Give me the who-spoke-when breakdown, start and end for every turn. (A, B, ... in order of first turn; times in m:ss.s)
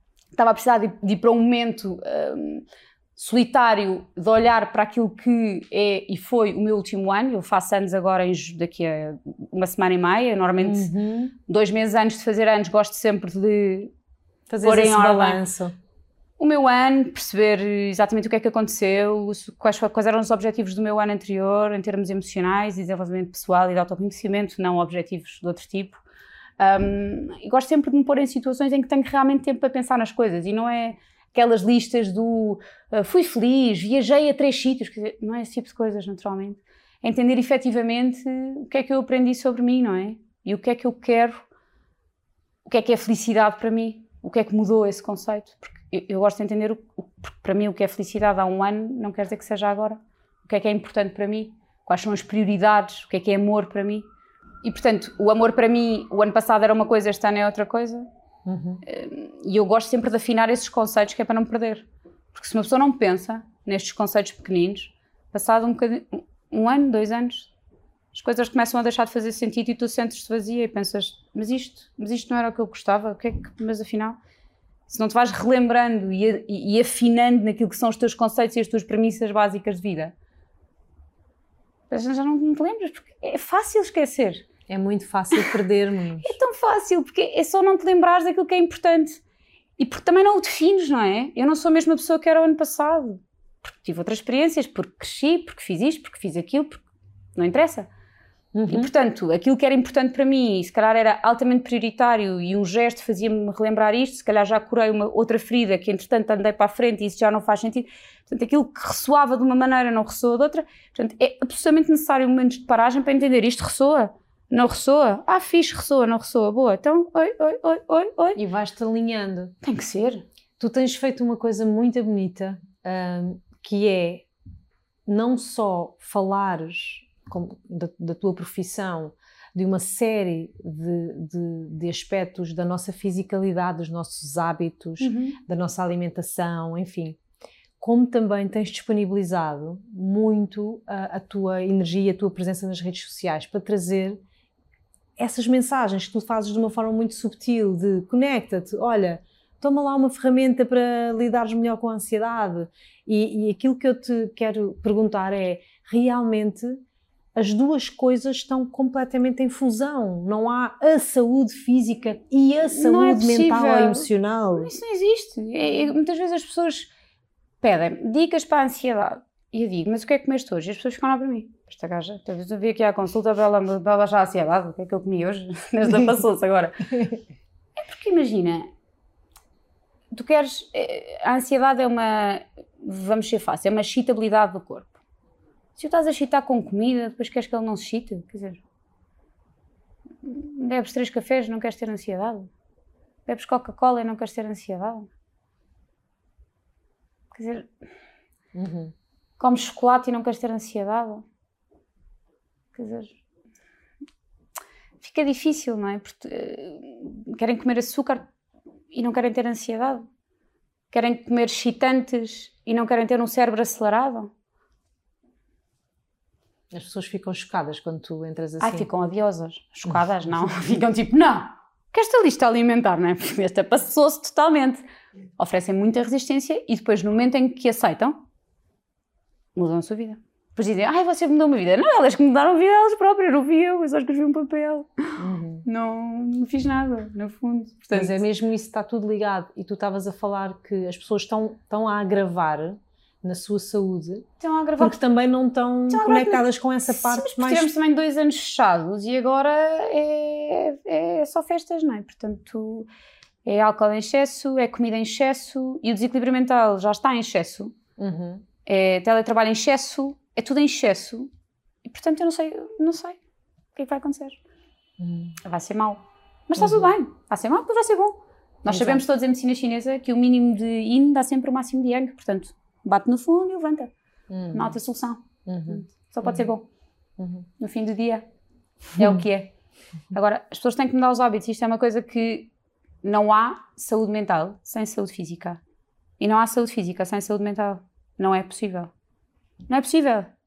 0:00.4-0:10.9 A
0:10.6-0:11.3 B
0:11.5-0:13.9 A
0:14.5-0:15.7 B
0:14.6-0:15.4 A
0:16.4-0:26.0 A
0:26.6-0:41.4 A
0:42.6-0:54.0 A
0:54.6-0:58.1 A
0:58.4-0:58.8 B
0:58.8-1:07.5 A
1:08.1-1:14.2 A
1:14.9-1:20.1 A
1:21.9-1:24.4 A
1:24.7-1:26.3 B
1:26.2-1:29.2 A
1:29.8-1:36.8 A
1:37.4-1:37.9 A
1:38.5-1:38.9 B
1:38.7-1:58.4 A
1:58.4-1:59.5 B
1:59.6-2:00.2 A
2:00.6-2:04.2 B
2:05.0-2:17.2 B
2:15.0-2:15.4 A
2:17.8-2:24.2 B
2:25.2-2:36.8 B
2:37.4-2:44.7 B
2:42.7-2:46.9 A
2:47.6-2:57.0 A
2:57.8-2:58.7 A
3:00.1-3:04.9 A
3:05.8-3:08.6 A
3:10.2-3:12.5 A
3:13.2-3:15.1 A
3:17.3-3:17.7 A
3:18.5-3:18.9 B
3:19.4-3:21.2 A
3:22.7-3:23.2 A
3:25.0-3:28.3 A
3:28.9-3:30.0 A
3:30.9-3:34.3 A
3:36.7-3:38.9 B
3:38.6-3:44.8 A
3:45.4-3:48.2 A
3:49.5-3:58.2 A
3:55.2-3:55.6 B
3:57.9-4:04.2 B
4:04.4-4:05.0 A
4:04.8-4:07.7 B
4:05.9-4:12.9 A
4:13.4-4:17.7 A
4:18.0-4:18.4 B
4:18.6-4:21.3 A
4:21.8-4:23.2 A
4:23.7-4:24.4 A
4:25.0-4:25.4 B
4:25.4-4:33.9 A
4:26.6-4:26.9 B
4:28.7-4:29.0 B
4:34.3-4:34.7 B
4:34.5-4:36.6 A
4:35.4-4:36.4 B
4:37.2-4:37.5 B
4:37.6-4:38.3 A
4:38.9-4:39.5 A
4:40.1-4:42.5 A
4:43.0-4:45.6 A
4:46.2-4:48.9 A
4:49.7-4:50.3 A